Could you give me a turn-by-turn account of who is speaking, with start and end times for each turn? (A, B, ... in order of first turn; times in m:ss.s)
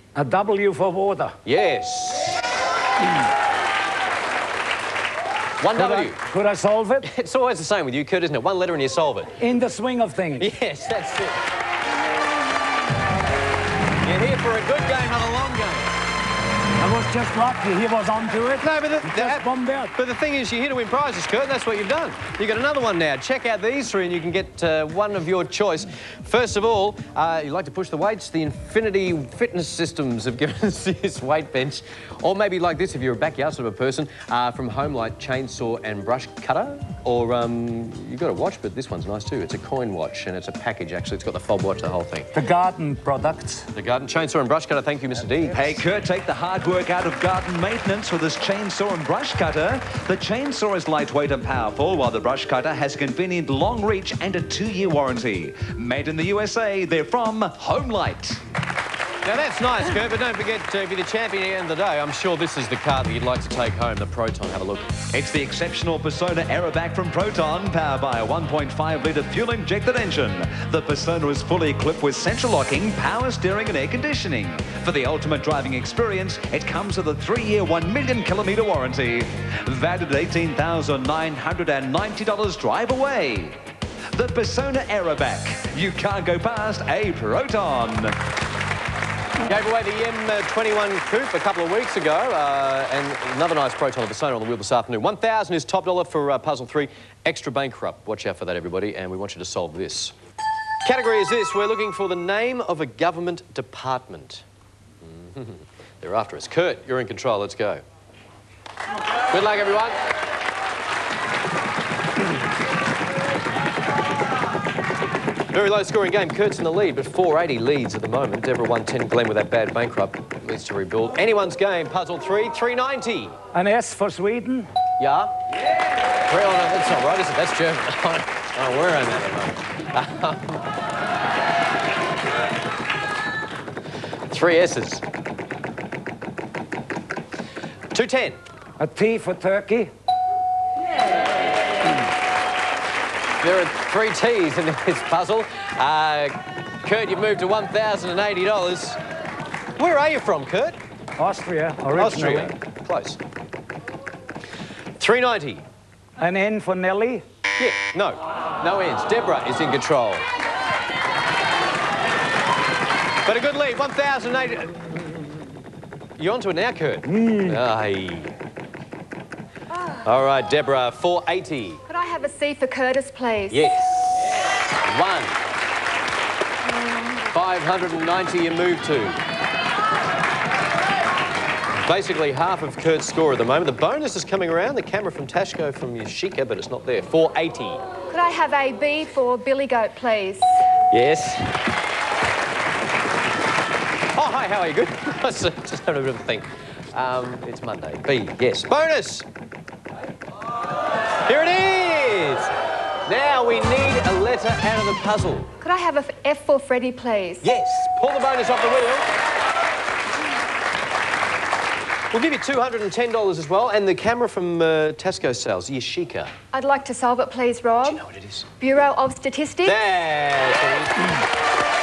0:00.2-0:01.4 A
0:01.4-0:02.4 B
0:05.6-0:06.2 B
0:05.7-0:07.0 A
0:07.0-0:09.3 B
0:09.4-0:10.4 A
0:10.4-0:11.4 B
0:14.0-0:15.9 B
0:16.8-0:19.9 A
0:18.6-0:42.3 B
0:42.3-0:43.6 A
0:43.7-0:45.8 B
0:45.5-0:58.4 C
0:59.2-1:04.9 B
1:05.1-1:23.6 C
1:24.1-1:28.1 C
1:29.4-1:40.1 B
1:40.8-1:44.4 B
1:45.0-1:47.8 B
1:49.3-1:50.0 B
1:55.5-2:03.4 B
2:03.5-2:04.7 A
2:05.0-2:05.4 B
2:06.3-2:10.6 B
2:14.3-2:15.0 B
2:17.9-2:18.4 B
2:18.8-2:19.9 A
2:23.4-2:29.0 B
2:29.8-2:30.8 B
2:31.2-2:32.5 A
2:31.9-2:33.2 B
2:35.0-2:35.6 B
2:36.2-2:37.2 A
2:37.6-2:40.2 B
2:43.2-2:45.0 B
2:46.2-2:48.3 B
2:47.1-2:47.6 A
2:50.0-2:51.8 B
2:51.9-2:53.7 D
2:53.5-2:54.0 B
2:54.9-2:55.4 B
2:56.7-2:57.2 D
2:57.3-2:59.2 B
3:01.8-3:07.8 B
3:08.1-3:10.6 D
3:10.9-3:11.5 B
3:14.1-3:19.3 B
3:21.2-3:22.5 B
3:23.0-3:25.5 B
3:25.6-3:27.5 D
3:27.4-3:29.0 B
3:32.1-3:36.3 B
3:36.5-3:38.0 D
3:37.8-3:38.4 B
3:38.6-3:39.8 D
3:39.6-3:41.1 B